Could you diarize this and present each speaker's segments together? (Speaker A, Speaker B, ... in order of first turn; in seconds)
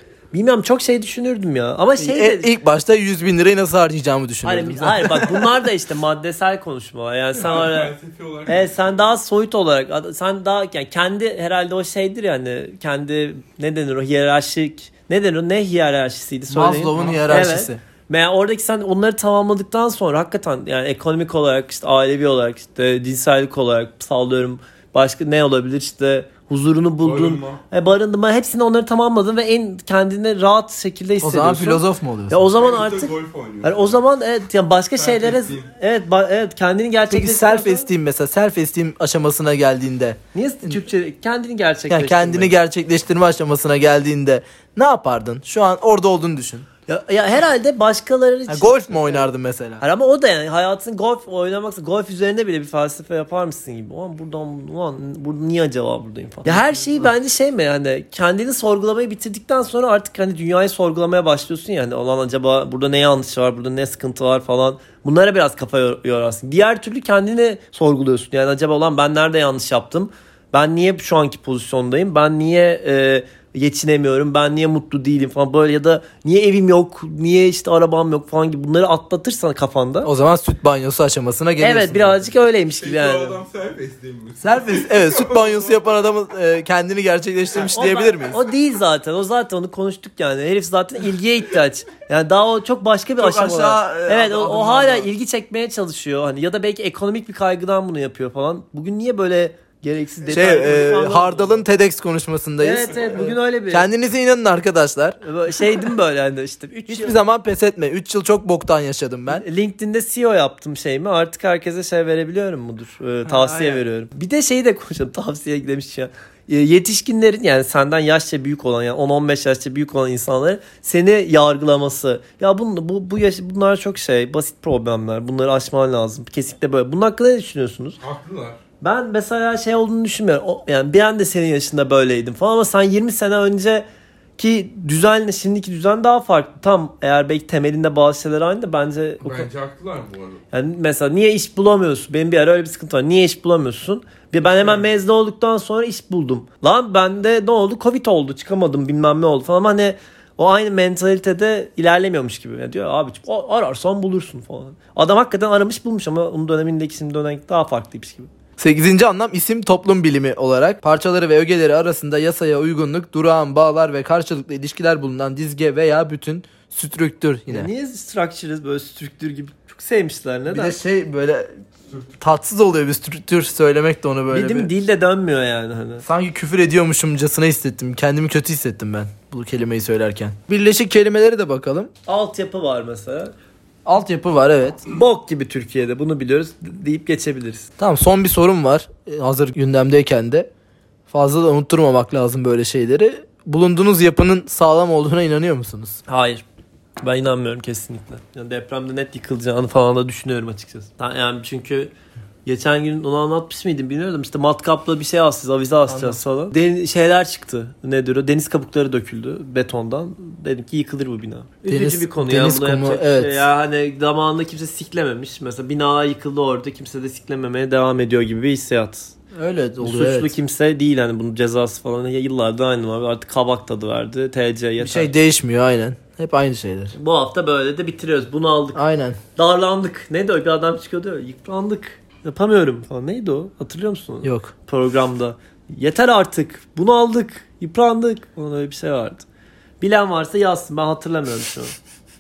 Speaker A: 0.3-2.5, 4.4-7.9, 8.5-37.9, 40.3-42.5, 46.9-49.3, 49.8-80.1, 81.6-83.4, 87.6-101.6, 102.6-103.9, 105.2-107.2, 109.3-128.0, 128.8-133.8, 134.4-139.5, 140.5-158.3, 167.5-170.8, 174.3-176.0, 182.1-183.3, 184.9-187.7, 196.1-196.4, 197.0-201.9, 202.4-219.1, 219.8-225.1, 226.9-228.8, 229.4-239.2, 239.8-241.8
Speaker B: 2.0-5.5, 16.5-17.8, 31.2-32.5, 37.1-40.8, 41.9-46.7, 48.5-49.8, 56.5-56.7, 80.0-82.2, 84.4-88.4, 93.2-95.1, 100.3-105.2, 106.9-109.4, 113.2-113.8, 158.6-167.7, 170.5-171.6, 172.2-174.7, 176.0-181.9, 183.8-184.8, 187.8-190.5, 191.1-196.0, 205.9-206.2, 211.7-213.5, 219.3-220.3, 224.8-226.9, 228.8-229.2, 234.2-234.5
Speaker C: 7.3-9.1, 17.0-17.3, 27.0-27.6, 32.5-34.0, 35.0-35.7, 82.8-85.7, 128.0-128.6, 139.2-140.4